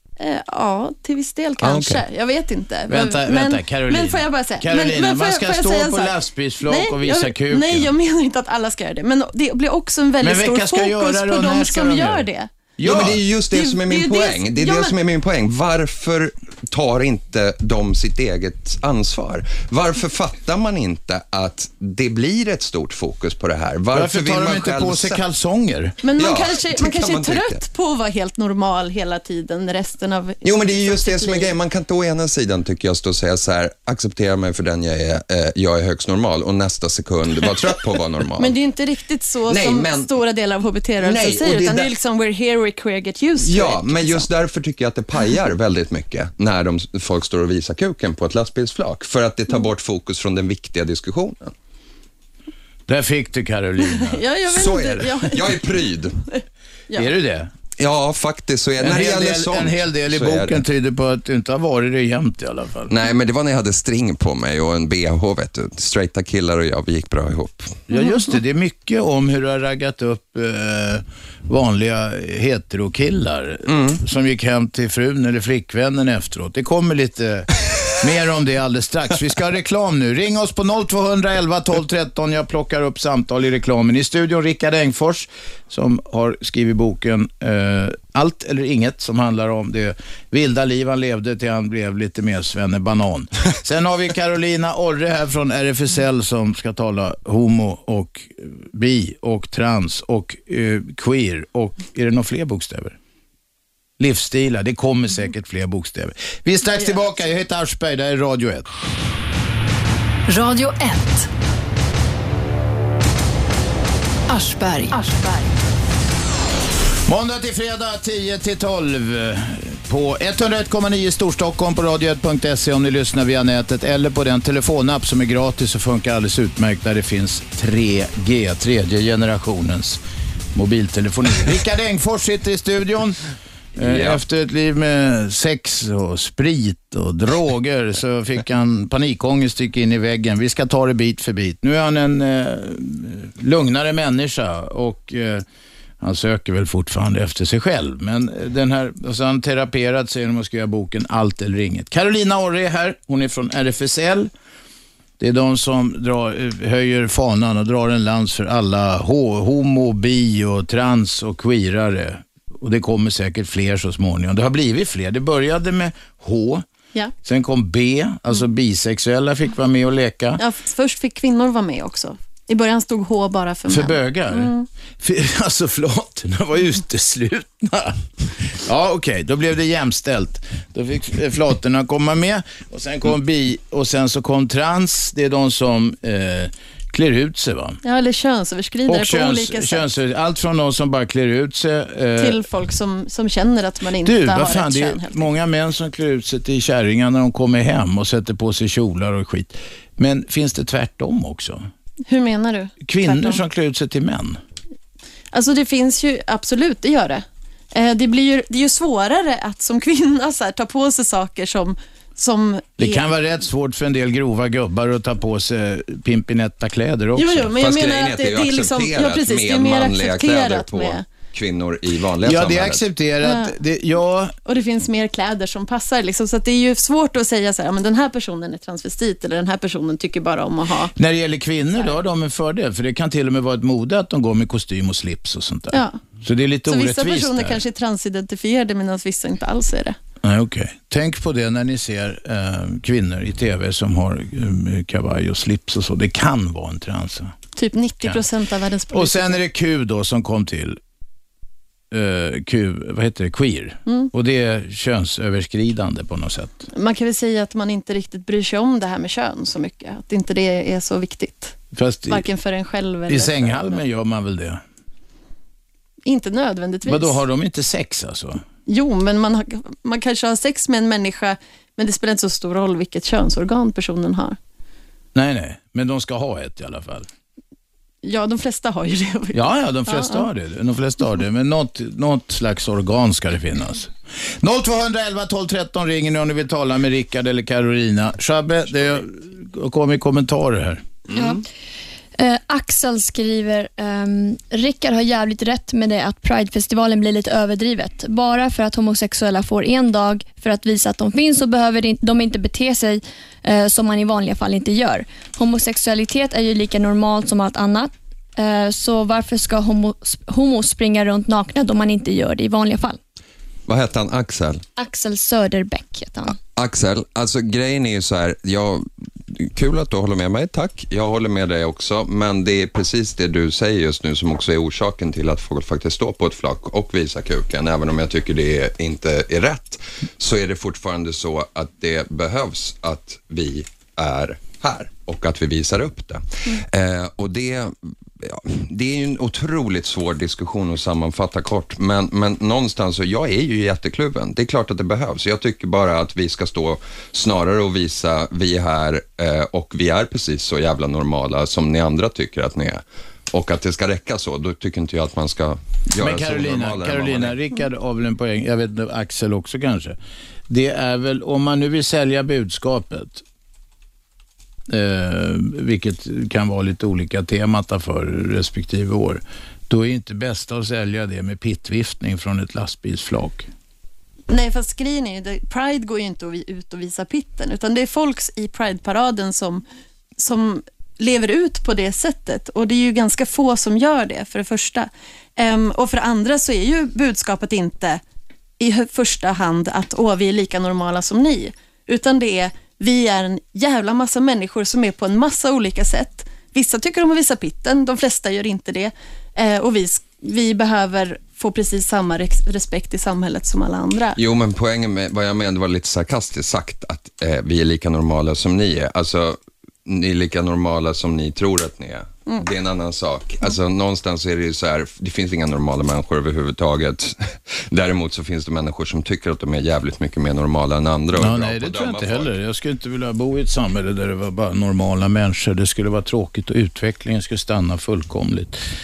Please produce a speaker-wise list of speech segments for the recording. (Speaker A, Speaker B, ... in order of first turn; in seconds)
Speaker A: 0.2-12.5, 13.5-14.9, 26.0-31.5, 38.4-44.2, 53.9-55.6, 56.3-57.1, 67.9-68.3, 170.4-174.7, 187.8-189.8, 192.2-195.2, 202.1-203.4, 205.3-213.1, 217.2-221.0, 223.2-223.5, 224.5-230.9, 235.7-236.0, 236.7-240.0, 247.6-249.4, 256.7-263.8, 266.1-267.2, 268.7-274.4, 278.0-280.3, 374.3-379.6, 380.2-388.0, 388.6-404.2
Speaker B: 1.6-2.0, 2.9-7.9, 10.2-12.2, 12.8-13.2, 23.9-26.0, 52.9-54.2, 57.0-57.5, 58.8-62.9, 67.9-103.0, 104.0-108.7, 117.1-130.0, 130.5-145.4, 146.0-154.3, 155.2-166.7, 167.2-170.4, 173.7-187.8, 188.9-192.4, 194.0-201.7, 202.8-204.4, 212.8-217.5, 222.2-224.3, 231.0-237.6, 240.2-247.4, 248.9-250.8, 251.9-256.7, 261.7-262.2, 263.1-264.6, 266.9-268.4, 275.1-277.1, 279.3-290.8, 356.0-360.0, 360.5-363.2, 364.7-373.5, 421.1-428.6
Speaker C: 12.8-25.2, 26.2-27.6, 30.4-38.6, 39.5-40.1, 41.0-41.9, 43.4-51.5, 54.5-56.2, 57.8-60.6, 62.9-67.8, 73.7-74.0, 133.8-134.2, 217.6-222.9, 291.1-291.4, 313.7-314.6, 316.5-357.4, 404.2-422.3
Speaker D: 110.3-111.3, 114.3-116.0
Speaker E: 292.2-313.0, 314.8-316.4